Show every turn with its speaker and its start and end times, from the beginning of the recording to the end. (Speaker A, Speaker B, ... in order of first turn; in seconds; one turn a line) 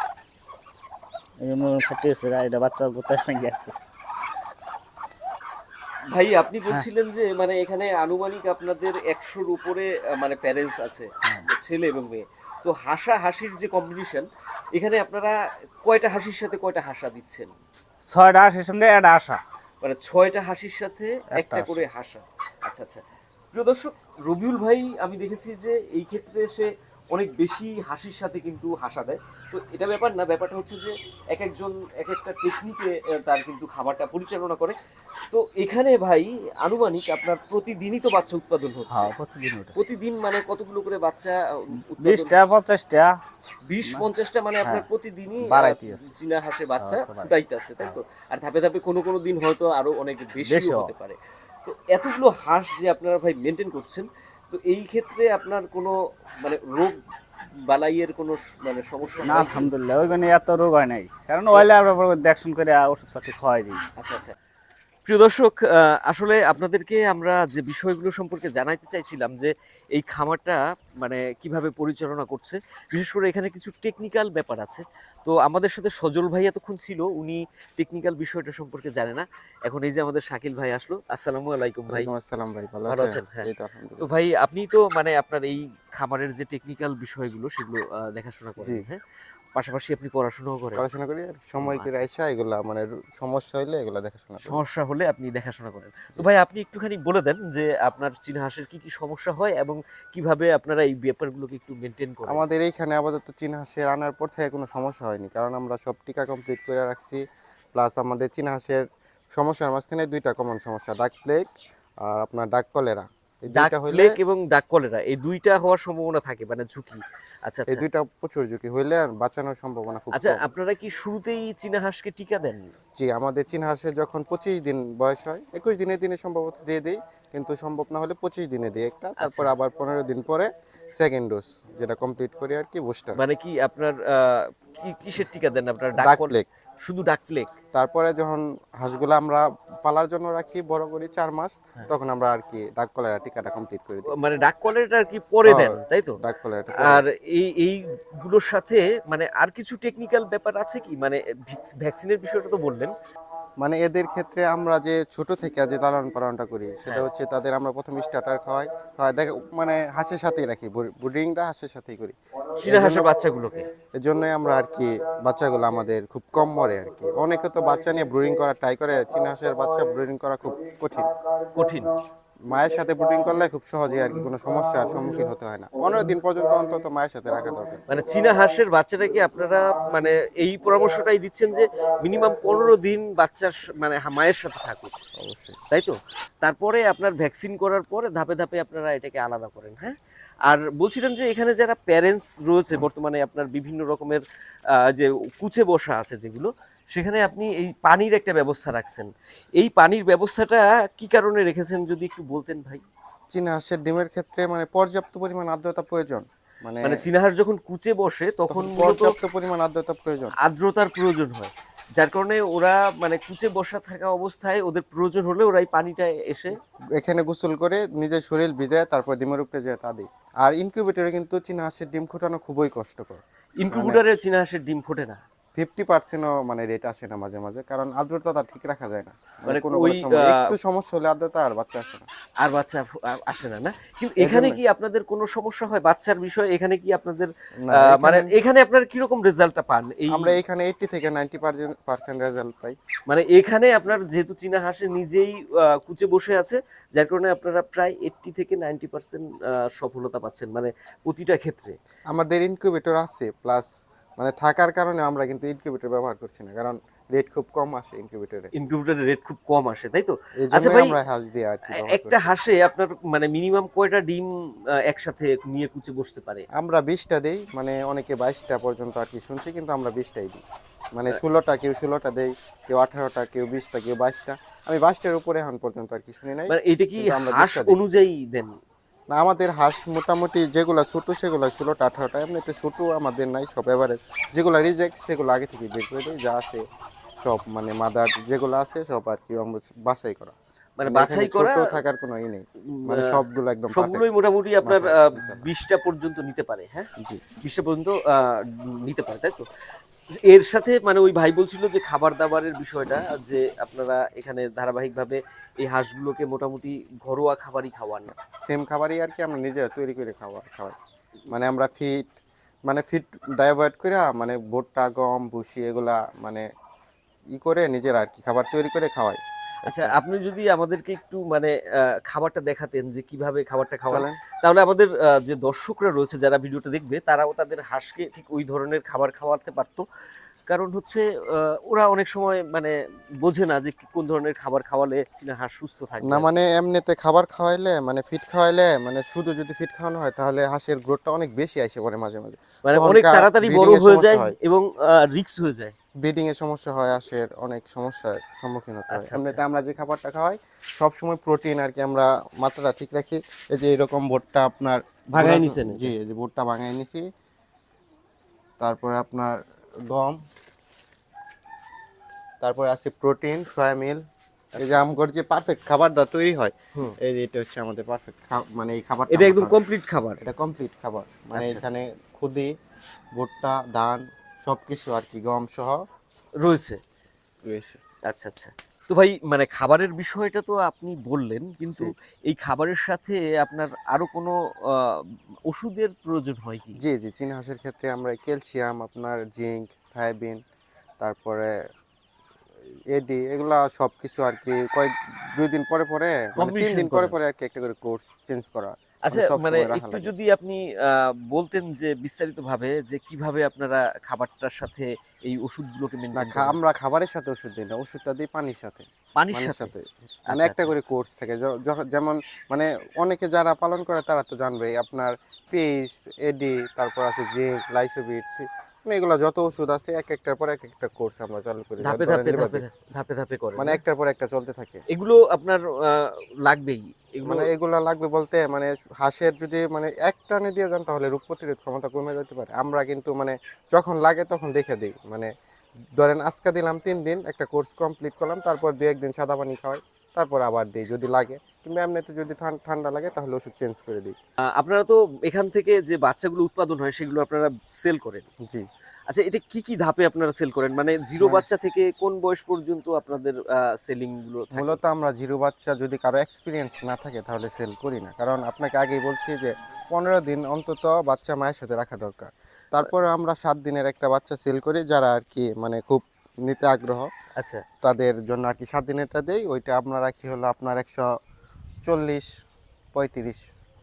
Speaker A: 1.4-3.8
Speaker B: 6.1-17.5
Speaker A: 18.1-19.4
Speaker B: 19.8-23.0
Speaker A: 21.3-21.8
Speaker B: 23.5-34.8
Speaker B: 35.3-39.1
Speaker A: 38.9-39.8
Speaker B: 39.8-42.4
Speaker A: 42.0-43.2
Speaker B: 43.7-57.0
Speaker A: 45.4-46.1
Speaker A: 46.8-48.0
Speaker A: 50.4-50.9
Speaker B: 57.7-59.7
Speaker A: 59.2-63.8
Speaker B: 64.0-64.3
Speaker B: 65.1-82.1
Speaker C: 81.9-84.1
Speaker B: 82.9-89.0
Speaker B: 89.6-90.8
Speaker C: 90.8-94.6
Speaker B: 91.6-92.1
Speaker B: 94.4-102.5
Speaker C: 102.3-107.2
Speaker C: 107.8-111.5
Speaker C: 112.0-114.1
Speaker B: 113.5-117.8
Speaker C: 117.7-120.5
Speaker B: 120.1-122.6
Speaker C: 123.0-133.2
Speaker B: 129.2-129.5
Speaker B: 133.2-137.5
Speaker C: 136.0-136.5
Speaker C: 137.7-144.1
Speaker B: 144.1-146.2
Speaker C: 145.4-147.1
Speaker B: 146.8-152.9
Speaker C: 153.6-163.1
Speaker B: 162.6-163.7
Speaker C: 164.0-171.1
Speaker B: 171.6-171.9
Speaker C: 172.5-177.8
Speaker B: 177.9-184.9
Speaker C: 185.2-185.6
Speaker B: 185.7-194.2
Speaker B: 194.8-202.8
Speaker C: 203.3-207.1
Speaker B: 206.8-209.1
Speaker C: 208.5-210.3
Speaker B: 210.4-216.6
Speaker C: 217.0-224.0
Speaker B: 223.6-225.2
Speaker C: 225.6-232.1
Speaker B: 229.5-230.5
Speaker B: 232.4-240.4
Speaker C: 234.2-234.6
Speaker C: 237.7-238.3
Speaker C: 240.1-242.8
Speaker B: 243.1-251.7
Speaker C: 252.1-253.7
Speaker C: 254.2-258.5
Speaker B: 258.5-261.0
Speaker C: 260.4-262.2
Speaker B: 261.8-264.3
Speaker B: 264.9-266.5
Speaker C: 266.6-270.4
Speaker C: 270.9-277.8
Speaker B: 276.5-278.5
Speaker C: 279.1-286.6
Speaker C: 287.2-294.0
Speaker B: 290.8-291.8
Speaker B: 292.8-296.9
Speaker C: 294.6-295.5
Speaker B: 297.4-299.4
Speaker B: 300.2-308.1
Speaker C: 308.1-310.8
Speaker C: 311.3-312.1
Speaker C: 312.7-316.4
Speaker C: 317.3-320.0
Speaker B: 319.7-329.8
Speaker C: 323.9-324.2
Speaker B: 330.5-336.3
Speaker C: 336.0-344.4
Speaker B: 342.6-345.7
Speaker C: 346.0-357.1
Speaker B: 348.9-349.4
Speaker B: 355.1-355.9
Speaker C: 358.6-360.2
Speaker C: 362.4-364.0
Speaker B: 364.6-364.8
Speaker C: 364.6-369.6
Speaker B: 369.1-370.2
Speaker C: 370.2-372.5
Speaker B: 371.3-371.6
Speaker C: 373.2-375.8
Speaker B: 376.4-376.8
Speaker C: 377.5-377.8
Speaker B: 378.1-386.8
Speaker C: 386.8-390.4
Speaker C: 391.0-391.5
Speaker C: 392.9-400.1
Speaker B: 396.4-397.2
Speaker B: 399.1-406.6
Speaker C: 406.1-422.6
Speaker B: 409.2-409.7
Speaker B: 410.3-410.8
Speaker B: 421.8-423.8
Speaker C: 423.6-424.8
Speaker B: 424.9-427.5
Speaker C: 427.2-435.3
Speaker C: 436.0-444.1
Speaker B: 444.6-448.3
Speaker B: 449.1-454.8
Speaker C: 454.5-467.1
Speaker B: 467.4-467.6
Speaker C: 467.8-471.1
Speaker C: 471.9-472.3
Speaker C: 472.9-473.4